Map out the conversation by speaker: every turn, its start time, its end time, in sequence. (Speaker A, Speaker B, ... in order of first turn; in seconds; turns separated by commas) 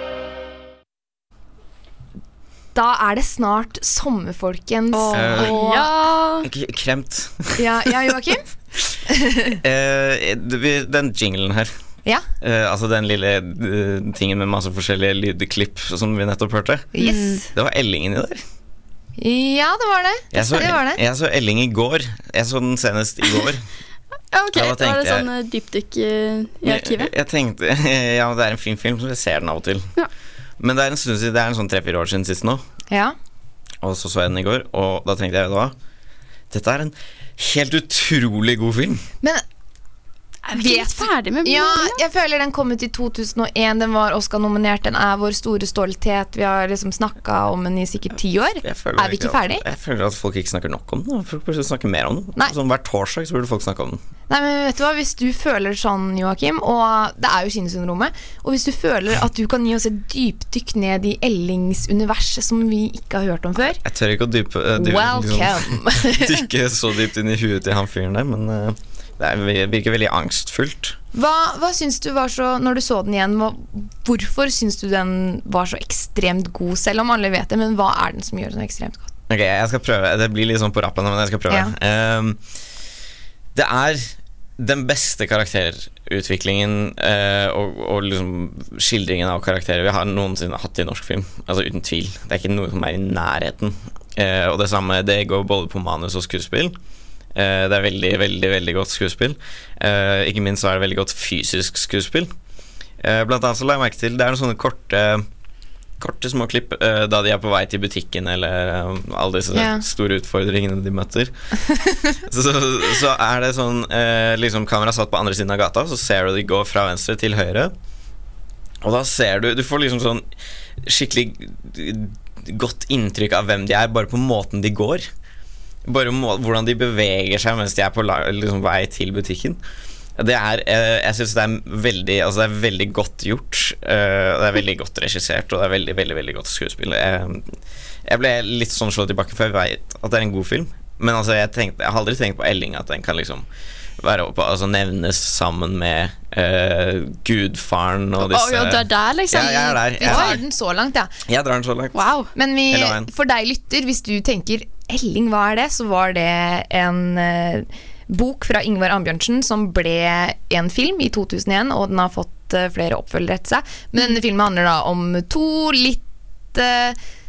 Speaker A: 2.7-6.1, Speaker B: 4.9-6.5, Speaker C: 5.1-5.6, Speaker C: 6.4-7.6, Speaker A: 7.6-8.4, Speaker A: 9.1-9.6, Speaker C: 9.6-11.7, Speaker C: 12.4-16.9, Speaker A: 16.9-17.5, Speaker B: 17.0-17.4, Speaker C: 17.5-18.4, Speaker A: 19.2-21.0, Speaker C: 20.3-23.6, Speaker B: 24.3-27.1, Speaker C: 24.5-25.3, Speaker C: 26.6-29.9, Speaker C: 30.6-32.6, Speaker A: 32.9-33.2, Speaker C: 33.8-35.8, Speaker C: 36.5-39.0, Speaker B: 40.5-42.0, Speaker A: 40.5-49.6, Speaker C: 48.6-54.0, Speaker A: 54.3-63.8, Speaker C: 63.8-71.0, Speaker A: 64.8-66.5, Speaker A: 71.1-79.1, Speaker C: 79.3-82.4, Speaker C: 83.5-96.8, Speaker C: 97.3-102.3, Speaker C: 103.0-105.2, Speaker C: 106.0-111.3, Speaker A: 109.5-109.8, Speaker C: 112.3-117.7, Speaker C: 118.8-120.2, Speaker C: 120.8-125.1, Speaker C: 125.8-129.6, Speaker C: 130.2-143.5, Speaker C: 144.0-150.4, Speaker B: 148.2-150.4, Speaker A: 149.3-151.1, Speaker C: 151.3-152.1, Speaker B: 151.9-152.3, Speaker A: 152.3-167.0, Speaker C: 152.7-153.1